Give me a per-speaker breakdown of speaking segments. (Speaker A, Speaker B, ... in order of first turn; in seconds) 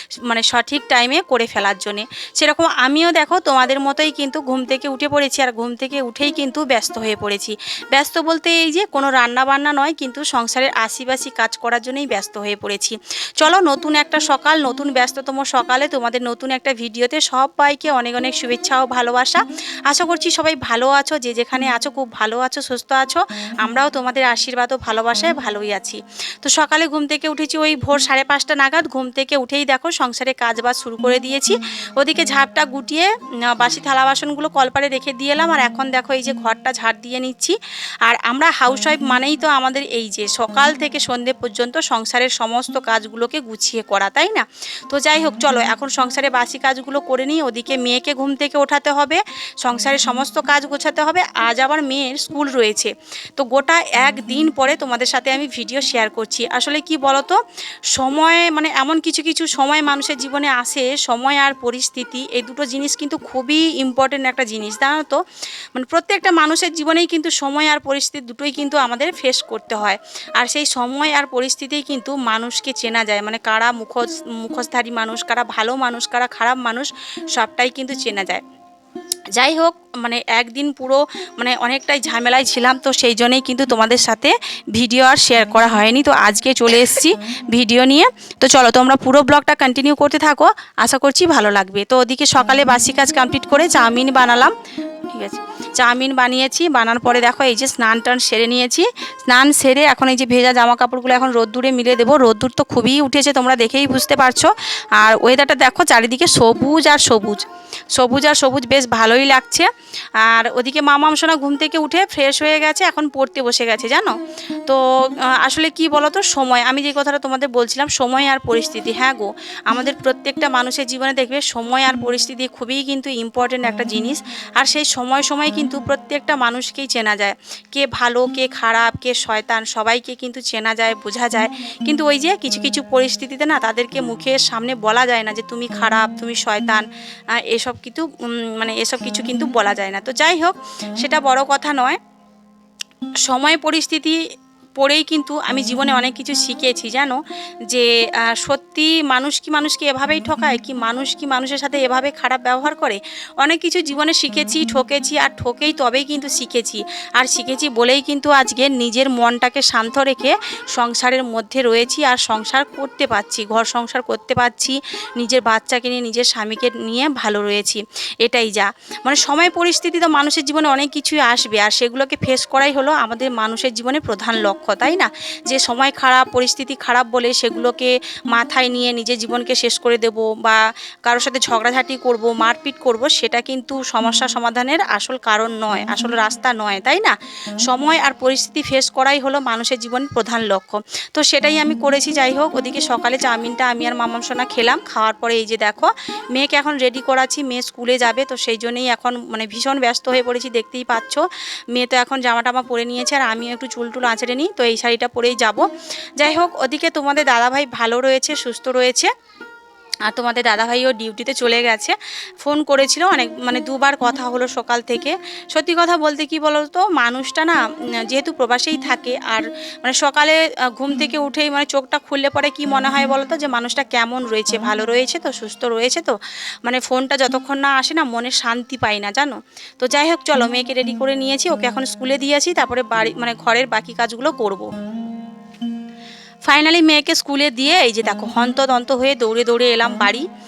Speaker A: 0.3-57.4, 57.9-65.2, 65.7-78.4, 79.3-94.5, 95.1-107.4, 108.0-109.7, 110.2-114.1, 114.7-136.8, 137.4-142.0, 143.2-144.2, 144.8-205.6, 206.2-209.1, 210.1-234.7, 236.5-240.2